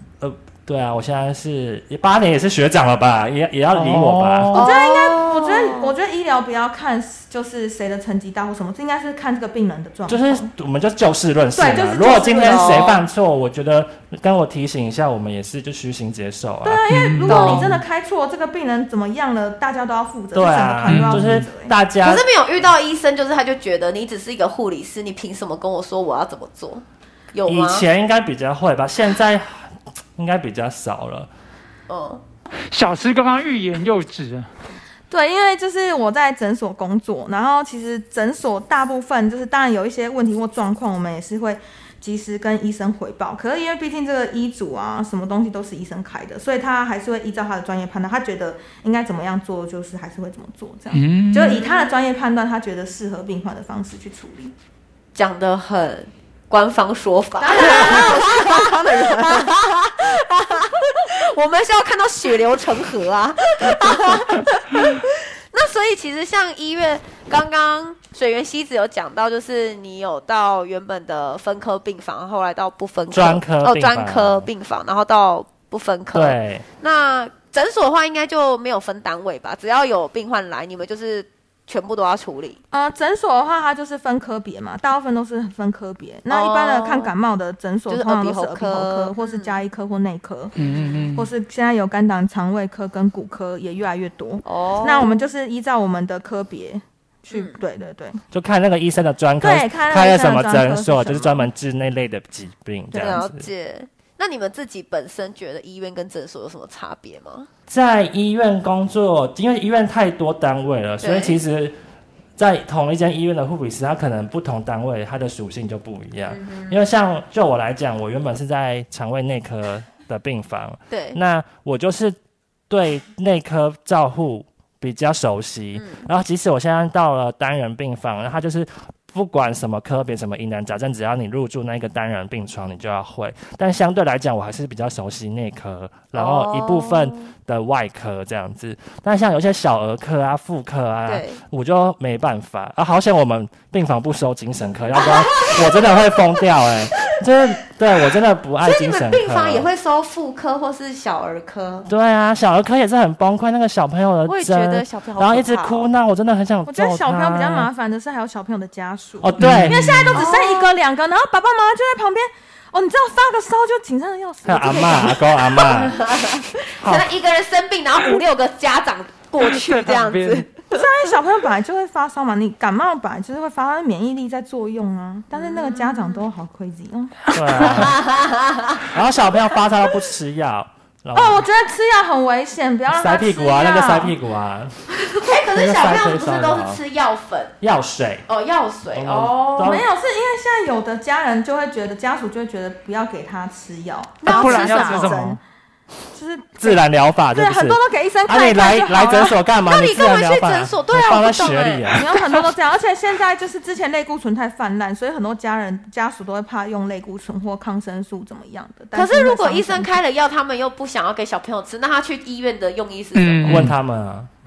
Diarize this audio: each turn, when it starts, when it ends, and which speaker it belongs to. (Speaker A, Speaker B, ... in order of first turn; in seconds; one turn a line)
Speaker A: 0.2-4.6
Speaker B: 3.7-4.7
Speaker C: 4.5-5.9
Speaker D: 4.5-10.5
Speaker A: 10.1-17.5
Speaker D: 11.5-12.9
Speaker C: 12.4-13.0
Speaker D: 16.6-21.7
Speaker B: 16.9-17.8
Speaker C: 17.3-17.7
Speaker A: 20.3-22.2
Speaker B: 20.8-21.4
Speaker C: 22.0-27.8
Speaker A: 27.4-31.3
Speaker C: 31.9-32.2
Speaker B: 32.7-34.5
Speaker D: 35.1-54.5
Speaker B: 50.9-51.6
Speaker C: 51.5-51.9
Speaker C: 55.1-82.6
Speaker D: 57.4-59.5
Speaker A: 73.1-74.5
Speaker A: 76.1-76.6
Speaker D: 82.7-90.5
Speaker C: 86.3-87.1
Speaker C: 87.9-89.5
Speaker B: 90.6-91.3
Speaker C: 90.7-91.0
Speaker D: 91.1-98.2
Speaker C: 94.4-95.1
Speaker C: 97.3-97.6
Speaker A: 98.3-103.5
Speaker D: 99.4-101.5
Speaker C: 102.9-107.5
Speaker A: 107.7-111.8
Speaker C: 111.0-111.4
Speaker A: 112.4-122.2
Speaker C: 116.3-116.8
Speaker C: 120.9-121.2
Speaker A: 122.7-149.7
Speaker C: 125.8-126.1
Speaker C: 136.1-137.3
Speaker C: 141.1-141.4
Speaker C: 144.9-147.2
Speaker C: 148.6-151.9
Speaker A: 151.9-157.7
Speaker C: 154.2-155.9
Speaker D: 156.7-165.6
Speaker A: 159.2-160.0
Speaker B: 159.4-160.2
Speaker C: 160.1-160.7
Speaker A: 164.4-166.0
Speaker C: 165.0-170.8
Speaker A: 166.8-167.1
Speaker B: 169.4-170.5
Speaker D: 170.7-177.6
Speaker C: 175.3-176.2
Speaker A: 177.3-178.0
Speaker B: 177.4-177.8
Speaker C: 177.7-178.9
Speaker A: 178.9-181.4
Speaker D: 181.1-184.1
Speaker A: 182.9-186.8
Speaker C: 185.1-187.5
Speaker A: 187.6-188.2
Speaker C: 188.3-189.8
Speaker A: 188.9-189.9
Speaker D: 189.6-195.4
Speaker C: 194.2-195.2
Speaker B: 194.2-195.4
Speaker D: 196.1-199.4
Speaker A: 196.6-202.1
Speaker C: 199.6-202.0
Speaker D: 201.9-209.9
Speaker C: 208.9-213.7
Speaker B: 213.1-213.7
Speaker A: 213.4-214.3